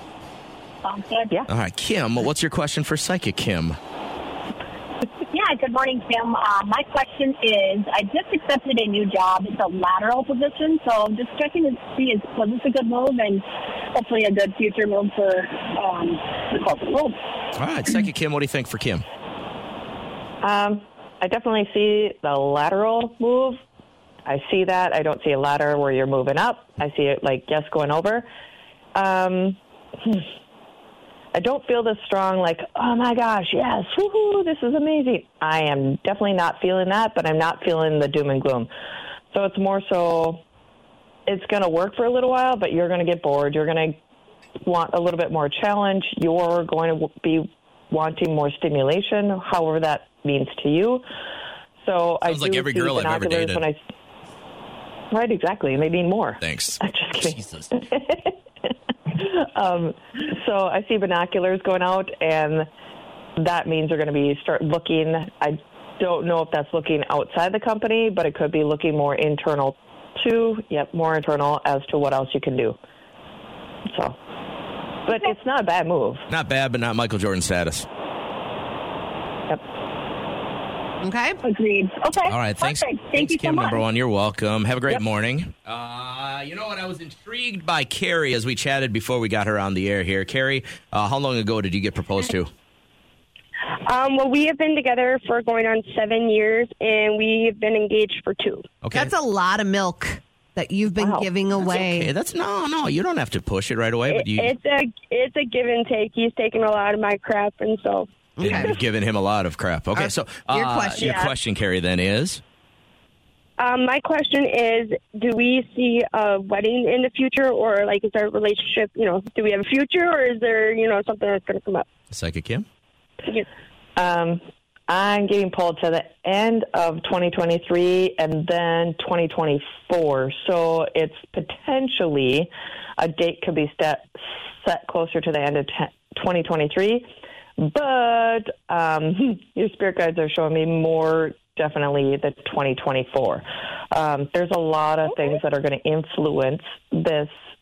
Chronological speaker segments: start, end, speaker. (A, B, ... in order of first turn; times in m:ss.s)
0:00.8-0:01.4 A
0:01.5-0:03.8 B
0:05.3-0:17.2 A
0:17.6-0:19.0 B
0:20.4-0:23.6 C
0:24.3-0:28.3 C
0:29.0-0:30.3 C
0:31.3-0:38.7 C
0:39.3-0:40.4 C
0:41.3-0:44.0 C
0:44.6-0:51.0 C
0:51.8-0:53.8 C
0:52.3-0:53.6 B
0:55.1-0:58.3 C
0:56.4-0:57.7 B
0:59.1-1:02.7 C
1:03.4-1:12.8 C
1:13.9-1:14.2 C
1:15.1-1:16.2 C
1:16.3-1:17.9 B
1:21.0-1:21.4 D
1:21.4-1:23.8 A
1:22.3-1:32.5 B
1:33.7-1:38.7 E
1:38.8-1:39.1 B
1:38.9-1:42.1 D
1:41.6-1:44.6 B
1:44.1-1:48.1 E
1:48.4-1:48.8 D
1:48.4-1:52.4 B
1:50.0-1:51.2 D
1:51.0-1:51.3 E
1:53.6-2:01.9 E
2:02.1-2:02.7 B
2:04.0-2:27.3 C